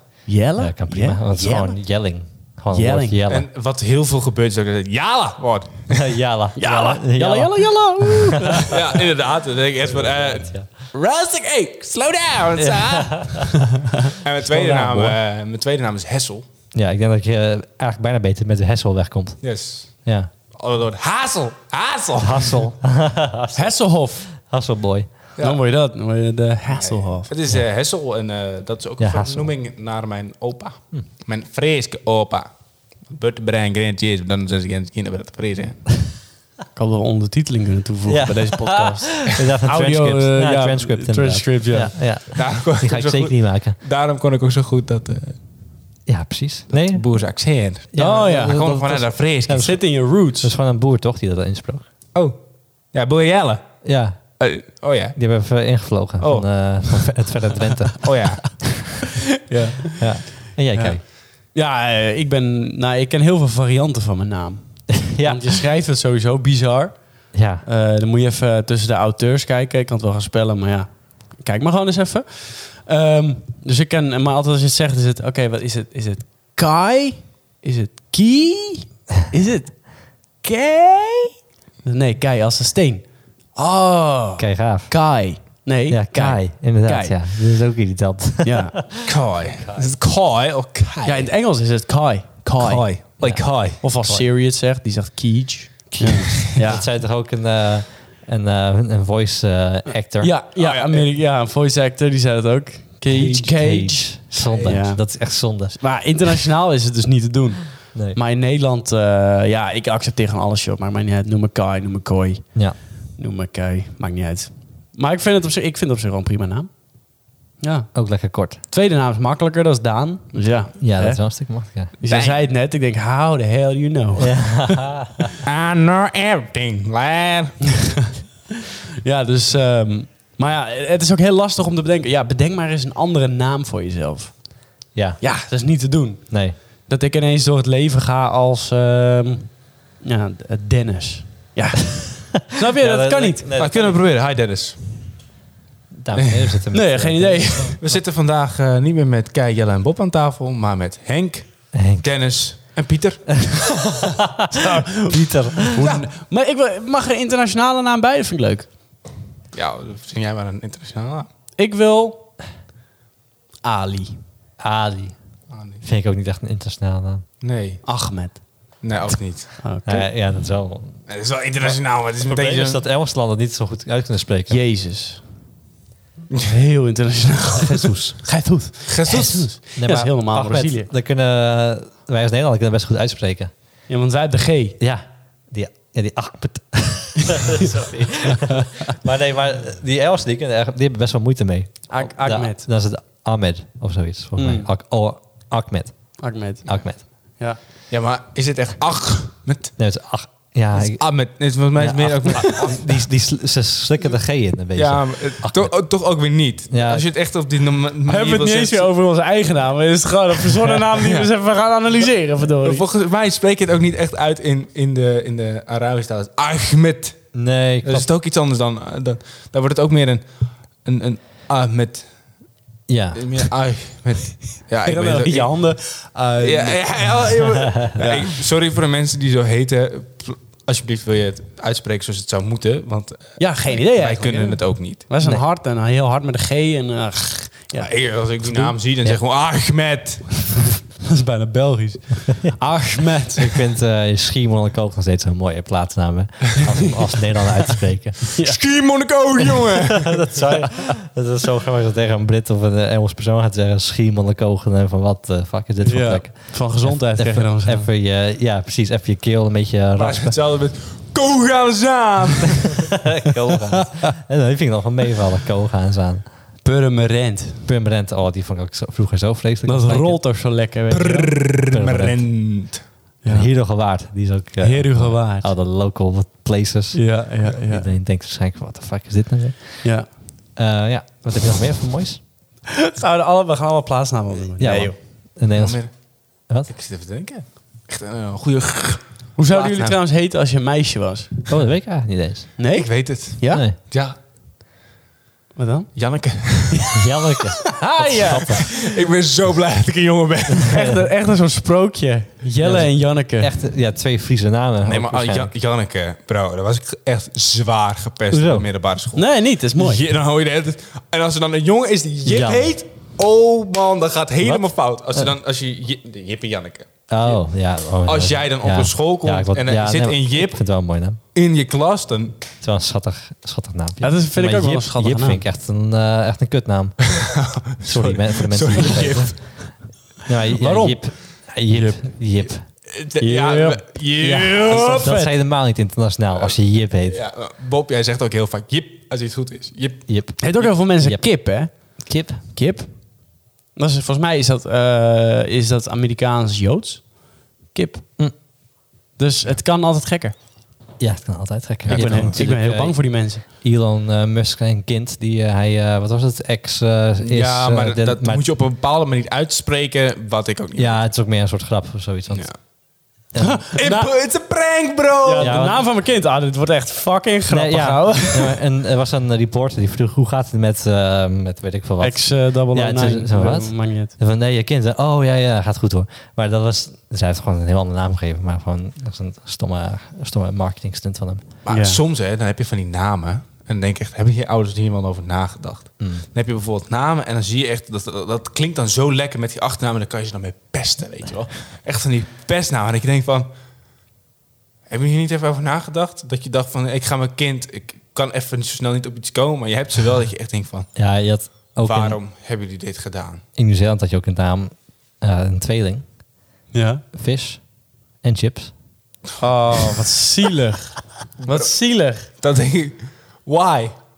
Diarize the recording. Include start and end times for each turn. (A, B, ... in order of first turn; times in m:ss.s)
0:00.2-0:01.8 A
0:00.6-0:03.5 B
0:02.7-0:03.2 A
0:03.3-0:06.1 C
0:05.9-0:08.7 B
0:06.6-0:08.8 A
0:08.7-0:16.4 C
0:09.9-0:10.7 B
0:12.6-0:13.7 B
0:14.4-0:15.2 B
0:16.7-0:19.4 B
0:19.4-0:20.0 C
0:20.0-0:20.3 B
0:20.5-0:22.7 C
0:22.2-0:23.8 B
0:23.5-0:24.3 A
0:24.3-0:25.1 B
0:25.4-0:27.3 A
0:26.7-0:32.5 C
0:29.0-0:29.5 B
0:33.1-0:36.1 C
0:36.7-0:41.9 A
0:38.1-0:43.8 B
0:42.3-0:45.4 C
0:46.1-0:47.0 B
0:46.7-0:49.7 C
0:47.9-0:51.8 B
0:48.0-0:48.6 A
0:49.6-0:50.5 A
0:52.9-0:53.8 C
0:53.8-0:54.2 B
0:54.4-0:55.2 C
0:55.1-0:58.8 B
0:56.2-0:57.1 C
0:58.0-0:58.8 C
0:59.5-1:27.2 A
1:00.0-1:01.0 B
1:05.1-1:05.6 B
1:07.3-1:07.6 B
1:24.4-1:25.0 B
1:25.9-1:28.9 B
1:28.4-1:28.8 A
1:29.0-1:31.3 C
1:31.0-1:32.9 A
1:32.6-1:33.8 C
1:33.2-1:34.3 B
1:33.8-1:36.8 A
1:36.0-1:40.4 B
1:40.2-1:56.7 A
1:40.6-1:41.1 C
1:43.1-1:45.8 B
1:44.4-1:44.7 C
1:57.6-1:57.9 A
1:57.9-1:58.6 B
1:58.6-2:04.8 A
2:00.8-2:01.9 B
2:02.0-2:02.4 C
2:04.2-2:05.2 B
2:05.4-2:07.8 C
2:09.0-2:23.5 A
2:14.9-2:15.3 B
2:16.3-2:16.6 B
2:22.7-2:24.0 B
2:23.6-2:25.0 C
2:26.0-2:28.0 B
2:26.1-2:26.6 C
2:26.7-2:27.8 A
2:27.8-2:34.0 C
2:31.7-2:32.0 B
2:33.4-2:35.8 B
2:34.5-2:38.7 A
2:35.8-2:36.1 C
2:39.5-2:41.3 C
2:41.6-2:42.2 A
2:43.6-2:44.2 A
2:44.6-2:45.2 B
2:45.5-2:45.8 C
2:45.8-2:47.2 B
2:47.4-2:47.8 C
2:47.8-2:48.4 A
2:48.8-2:49.6 C
2:49.6-2:50.1 A
2:49.8-2:51.0 B
2:51.1-2:52.8 C
2:52.2-2:54.6 B
2:54.5-2:55.2 A
2:56.4-3:00.9 A
2:57.6-2:58.2 B
2:58.9-2:59.5 C
2:59.8-3:03.5 B
3:03.9-3:04.8 A
3:04.8-3:17.0 B
3:08.2-3:08.9 A
3:11.9-3:12.6 A
3:14.4-3:14.7 A
3:16.2-3:17.6 A
3:17.9-3:19.8 C
3:19.8-3:25.7 B
3:20.7-3:23.0 C
3:24.7-3:28.9 C
3:26.7-3:27.0 B
3:28.0-3:32.8 A
3:32.6-3:37.3 C
3:37.3-3:38.1 B
3:37.8-3:40.2 C
3:40.8-3:42.0 C
3:42.9-3:43.2 B
3:43.1-3:45.5 C
3:44.8-3:47.3 A
3:46.4-3:55.0 C
3:47.9-3:48.3 A
3:53.4-3:59.2 A
3:57.8-4:00.7 C
4:01.0-4:03.6 A
4:03.3-4:08.3 B
4:08.4-4:10.4 C
4:10.1-4:20.4 B
4:15.8-4:17.9 A
4:20.0-4:23.0 C
4:23.0-4:26.2 B
4:26.6-4:27.6 A
4:27.6-4:30.2 B
4:29.6-4:31.4 A
4:30.9-4:32.8 C
4:31.7-4:32.2 B
4:33.2-4:33.5 A
4:33.3-4:39.9 B
4:34.6-4:35.5 A
4:36.9-4:37.9 A
4:40.6-4:42.2 B
4:42.8-4:45.0 A
4:44.6-4:45.8 B
4:45.5-4:50.0 C
4:49.4-4:51.5 A
4:51.5-4:52.5 B
4:52.6-4:53.6 A
4:52.7-4:54.2 C
4:53.5-4:53.8 B
4:55.6-4:56.0 A
4:56.0-4:57.0 C
4:56.7-4:57.0 A
4:57.0-4:58.6 B
4:57.6-4:58.9 A
4:58.3-5:00.9 C
5:00.6-5:00.9 B
5:00.6-5:03.5 A
5:02.6-5:05.5 B
5:04.8-5:17.4 C
5:08.3-5:08.7 B
5:09.2-5:10.0 A
5:12.2-5:12.7 B
5:14.4-5:15.3 B
5:17.1-5:21.2 B
5:18.0-5:20.6 C
5:21.3-5:22.4 C
5:22.6-5:29.7 B
5:24.0-5:25.4 A
5:27.1-5:29.5 C
5:30.2-5:32.6 B
5:30.5-5:32.0 A
5:32.9-5:35.1 C
5:33.2-5:33.9 A
5:34.2-5:37.2 B
5:34.7-5:35.3 A
5:36.4-5:40.7 C
5:40.1-5:41.3 B
5:40.4-5:48.1 A
5:42.0-5:42.4 B
5:49.2-5:50.3 A
5:51.0-5:58.4 B
5:51.8-5:52.4 C
5:51.9-5:53.4 A
5:57.2-6:01.0 C
6:00.8-6:02.6 B
6:02.3-6:02.6 C
6:03.3-6:03.6 B
6:03.4-6:04.1 A
6:03.7-6:05.6 C
6:05.2-6:08.6 A
6:05.4-6:05.8 B
6:07.5-6:21.4 B
6:12.0-6:14.2 A
6:21.6-6:33.5 C
6:21.7-6:22.0 A
6:26.0-6:26.2 B
6:34.9-6:40.9 C
6:41.0-6:42.2 B
6:41.8-6:43.4 C
6:43.6-6:46.0 B
6:46.7-6:47.0 A
6:47.1-6:47.7 B
6:48.2-6:48.7 B
6:49.4-6:52.3 A
6:51.4-6:51.7 C
6:52.3-6:53.9 C